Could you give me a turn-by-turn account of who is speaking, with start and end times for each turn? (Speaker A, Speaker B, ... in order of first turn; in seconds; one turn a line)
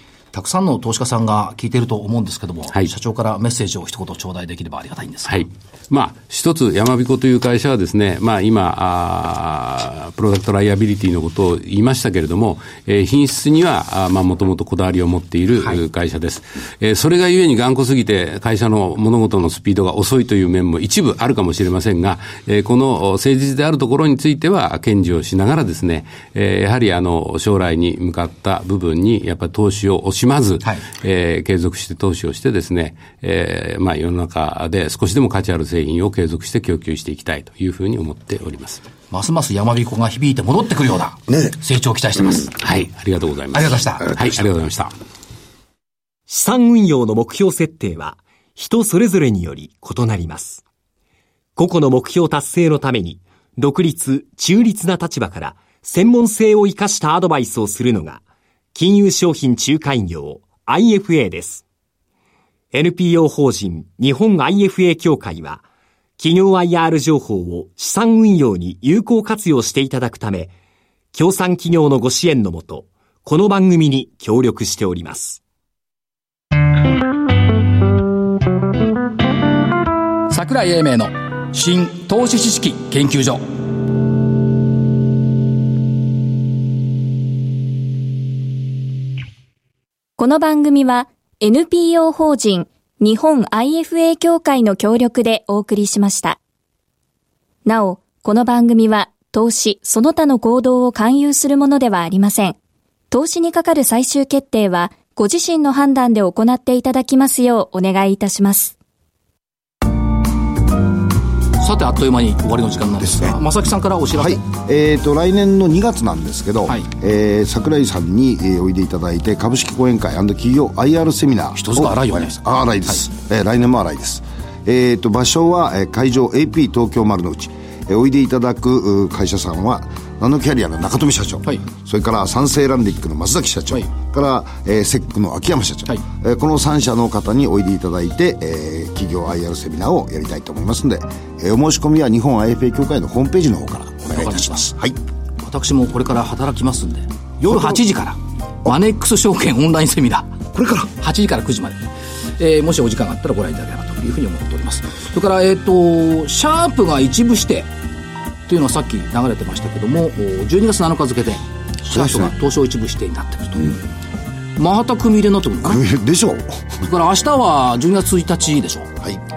Speaker A: 0.3-5.5
Speaker B: 5.3-38.8
Speaker A: 39.1-42.5
Speaker B: 42.6-44.9
Speaker A: 43.5-44.2
Speaker C: 46.3-50.6
Speaker C: 51.6-58.2
Speaker C: 58.7-61.6
Speaker C: 62.7-65.6
Speaker C: 66.2-70.5
Speaker C: 71.1-75.4
Speaker A: 80.3-83.4
Speaker D: 90.2-96.4
Speaker D: 97.7-102.6
Speaker D: 103.1-108.8
Speaker A: 111.6-114.4
Speaker E: 113.0-113.4
Speaker E: 114.2-145.0
Speaker A: 121.5-122.4
Speaker A: 144.1-144.7
Speaker A: 145.4-157.7
Speaker E: 150.5-150.9
Speaker A: 158.5-163.8
Speaker E: 161.9-162.3
Speaker A: 164.6-165.8
Speaker E: 165.7-166.8
Speaker A: 166.8-168.9